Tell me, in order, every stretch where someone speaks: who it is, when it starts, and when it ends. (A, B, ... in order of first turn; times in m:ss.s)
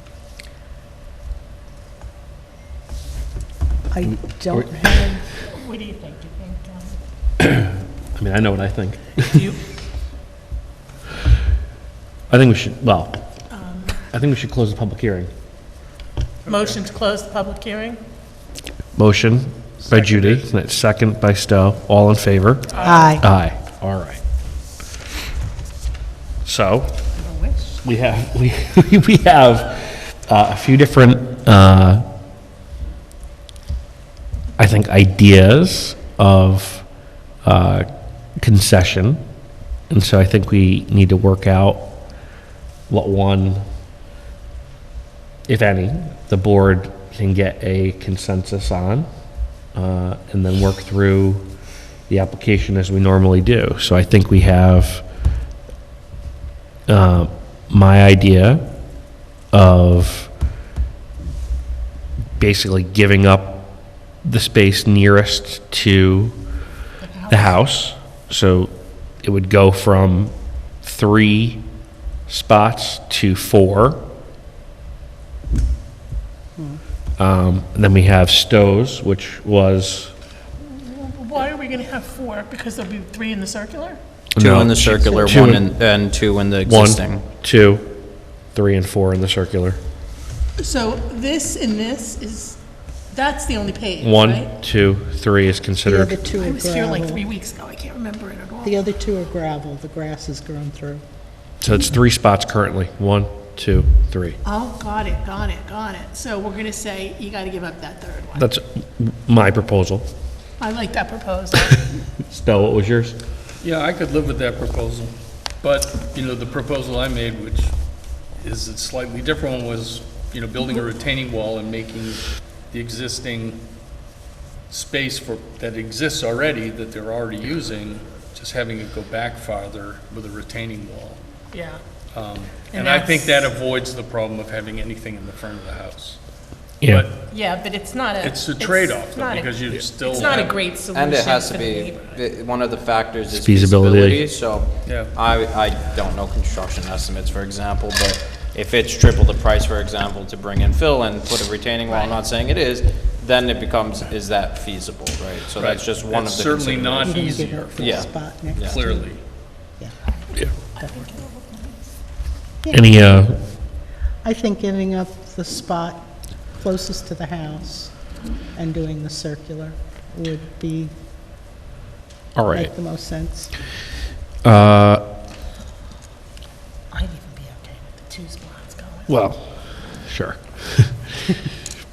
0:03.9-0:05.3 A
0:04.5-0:04.8 B
0:05.5-0:07.0 C
0:07.4-0:09.5 B
0:12.3-0:13.2 B
0:13.5-0:14.0 C
0:14.1-0:15.3 B
0:16.5-0:16.8 D
0:16.5-0:18.0 C
0:19.0-0:24.2 B
0:19.8-0:20.5 D
0:22.8-0:23.2 A
0:26.4-0:27.0 B
0:27.2-0:27.8 C
0:27.8-0:32.0 B
0:34.6-0:36.9 B
0:37.4-0:37.9 B
0:38.4-0:39.2 B
0:39.9-0:42.0 B
0:42.9-0:43.6 B
0:45.5-0:49.1 B
0:49.7-0:51.5 B
0:52.1-0:55.0 B
0:56.9-0:58.7 B
0:59.5-1:00.3 B
1:02.4-1:06.4 B
1:07.0-1:07.6 C
1:07.3-1:11.6 B
1:12.3-1:14.0 B
1:17.2-1:20.1 B
1:20.6-1:24.0 C
1:24.3-1:25.7 B
1:24.4-1:27.2 E
1:26.6-1:29.8 B
1:30.6-1:32.6 C
1:33.1-1:34.5 C
1:34.0-1:36.2 B
1:35.8-1:37.2 A
1:36.3-1:38.9 C
1:38.6-1:41.0 A
1:41.6-1:44.4 B
1:44.4-1:48.5 C
1:48.4-1:50.1 B
1:50.6-1:52.0 C
1:52.3-1:53.2 B
1:53.6-1:57.8 D
1:58.4-2:03.6 D
2:04.7-2:11.2 D
2:11.5-2:11.8 C
2:12.1-2:16.2 D
2:12.7-2:13.5 C
2:16.8-2:17.1 B
2:16.8-2:17.1 D
2:17.2-2:22.2 C
2:18.2-2:20.6 D
2:20.9-2:37.2 E
2:23.3-2:24.3 B
2:24.8-2:25.1 D
2:31.9-2:32.2 C
2:35.6-2:39.2 D
2:37.0-2:39.1 A
2:37.8-2:38.8 E
2:40.7-2:40.9 A
2:40.8-2:41.9 C
2:42.6-2:43.0 A
2:42.7-2:43.4 B
2:44.2-2:48.0 A
2:48.6-2:50.9 A
2:52.4-2:52.7 B
2:52.5-2:53.5 A
2:54.4-2:55.0 B
2:56.9-2:59.1 C
2:59.1-3:01.4 B